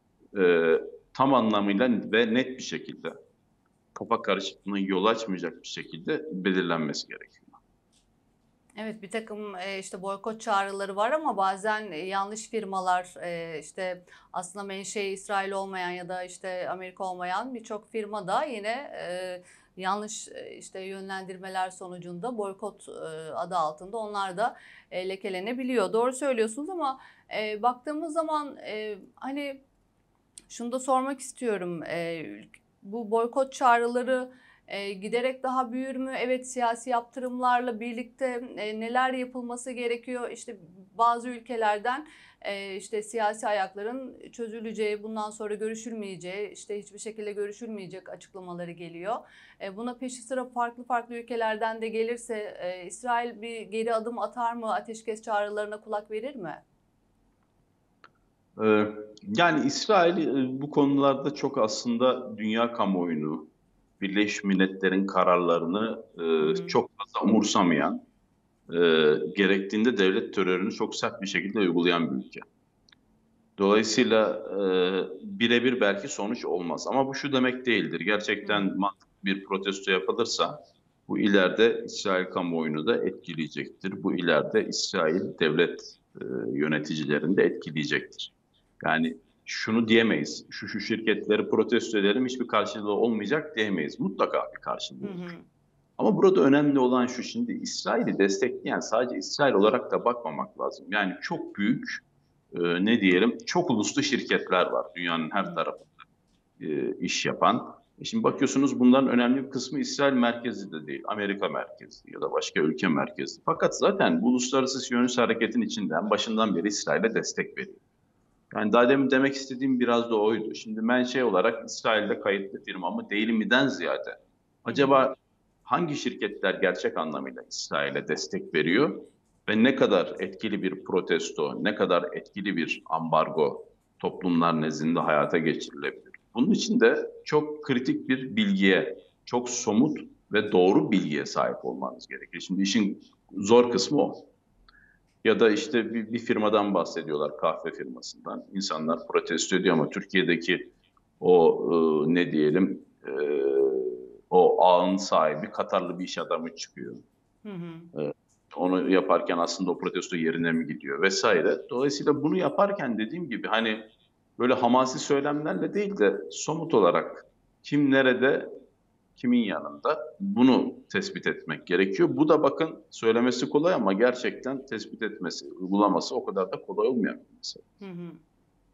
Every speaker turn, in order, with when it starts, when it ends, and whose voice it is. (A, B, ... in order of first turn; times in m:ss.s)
0:00.3-0:03.1 A
0:04.0-0:07.6 A
0:08.8-0:29.6 B
0:30.5-0:56.6 B
0:58.6-1:08.0 A
1:06.4-1:06.8 B
1:08.7-1:12.4 A
1:13.6-1:20.6 A
1:18.4-1:18.7 B
1:21.1-1:35.3 A
1:35.0-1:35.4 B
1:36.0-1:45.9 A
1:46.6-1:57.8 A
1:58.5-2:24.3 A
2:04.7-2:05.0 B
2:25.2-2:37.0 A
2:37.4-2:37.9 B
2:37.9-2:48.5 A
2:49.2-2:57.6 A
2:57.8-2:58.2 B